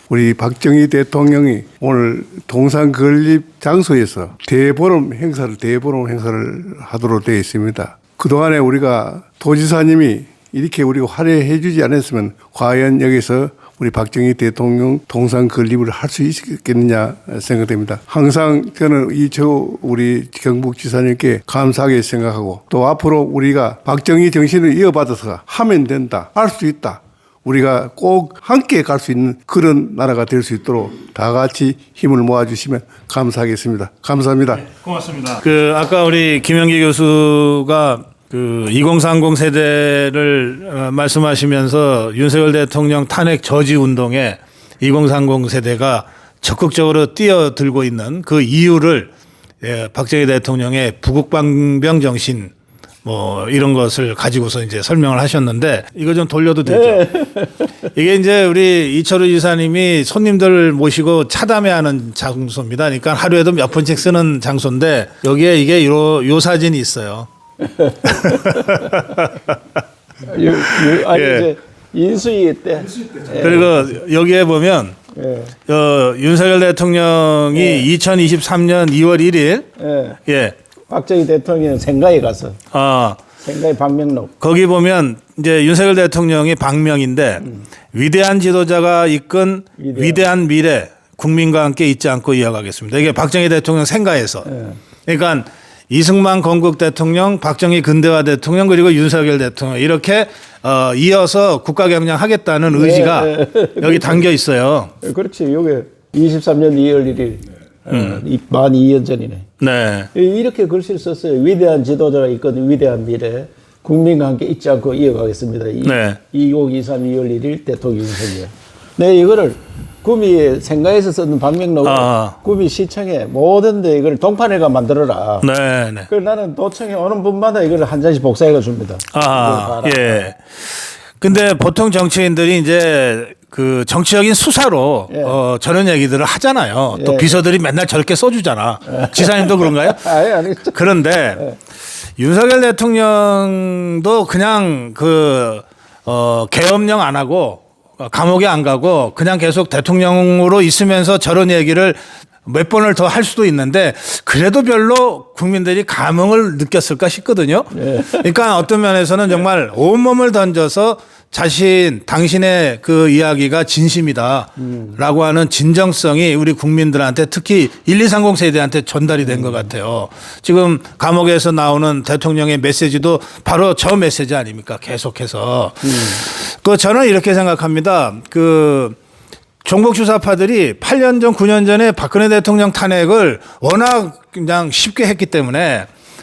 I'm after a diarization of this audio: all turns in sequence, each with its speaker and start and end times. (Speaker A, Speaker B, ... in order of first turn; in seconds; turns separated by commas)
Speaker A: 0.1-34.7, Speaker B: 34.7-49.1, Speaker B: 49.6-52.5, Speaker B: 53.0-57.1, Speaker C: 56.7-57.7, Speaker B: 57.9-67.3, Speaker C: 67.6-68.9, Speaker B: 68.1-69.5, Speaker C: 70.2-73.9, Speaker B: 70.8-71.5, Speaker B: 73.4-75.0, Speaker C: 75.1-75.5, Speaker B: 75.7-79.7, Speaker C: 77.5-77.9, Speaker C: 79.8-80.2, Speaker B: 80.2-80.5, Speaker C: 80.9-82.6, Speaker B: 82.7-83.2, Speaker C: 83.4-84.3, Speaker B: 84.4-94.5, Speaker C: 89.8-90.2, Speaker C: 94.4-94.8, Speaker B: 95.1-104.9, Speaker C: 102.7-104.2, Speaker C: 105.0-109.5, Speaker B: 107.9-108.2, Speaker B: 109.6-110.1, Speaker C: 110.1-125.5, Speaker B: 115.8-116.2, Speaker B: 121.8-122.3, Speaker B: 125.4-126.1, Speaker C: 126.1-130.3, Speaker B: 129.1-140.1, Speaker C: 135.1-135.3, Speaker C: 136.9-137.3, Speaker C: 138.9-140.8, Speaker B: 140.7-141.4, Speaker B: 142.2-179.0, Speaker C: 157.7-158.2, Speaker C: 164.6-165.0, Speaker C: 169.2-169.7, Speaker C: 175.8-176.2, Speaker B: 179.6-185.9